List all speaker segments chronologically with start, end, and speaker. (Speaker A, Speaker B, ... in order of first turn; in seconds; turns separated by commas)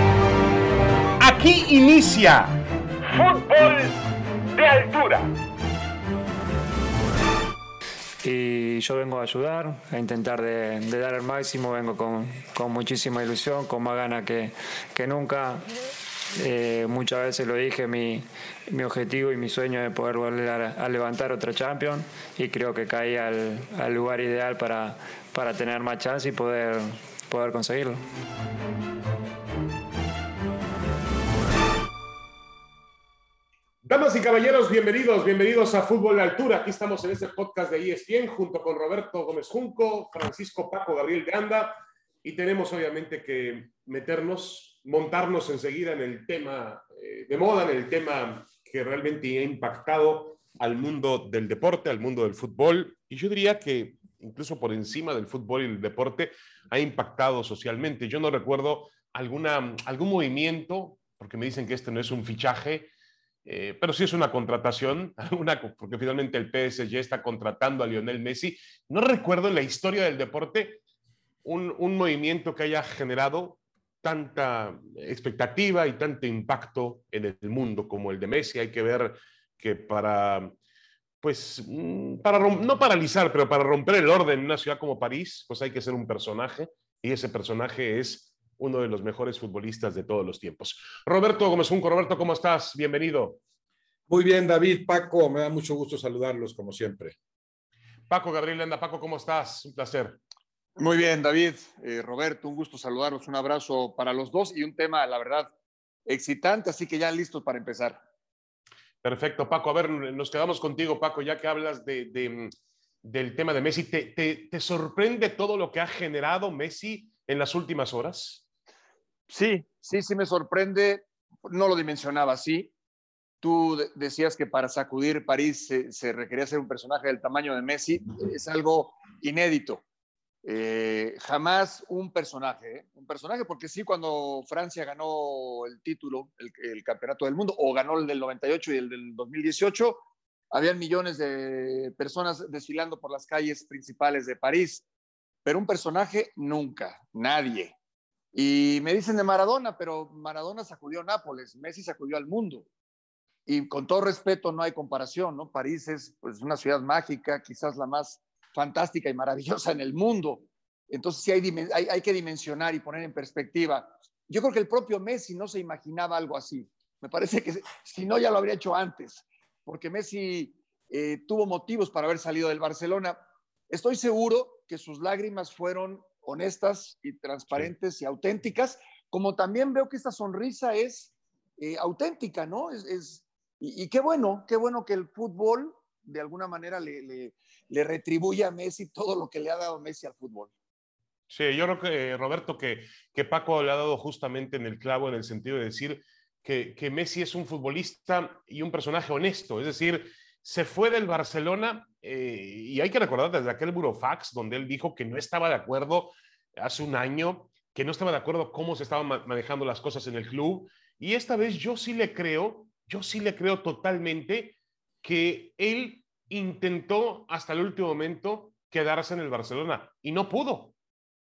Speaker A: 1.2-4.0, Speaker A: 4.5-5.3, Speaker B: 8.2-15.7, Speaker B: 16.4-28.0, Speaker A: 33.8-62.9, Speaker A: 63.4-70.8, Speaker A: 71.4-80.5, Speaker A: 81.2-93.4, Speaker C: 94.1-97.2, Speaker A: 98.1-100.2, Speaker D: 100.8-105.5, Speaker D: 106.0-108.0, Speaker A: 109.0-112.5, Speaker A: 113.0-118.4, Speaker D: 119.3-122.7, Speaker D: 123.4-129.8, Speaker D: 130.4-144.8, Speaker D: 145.4-147.7, Speaker D: 148.3-152.7, Speaker D: 153.5-173.2, Speaker D: 173.7-190.5, Speaker A: 191.3-220.7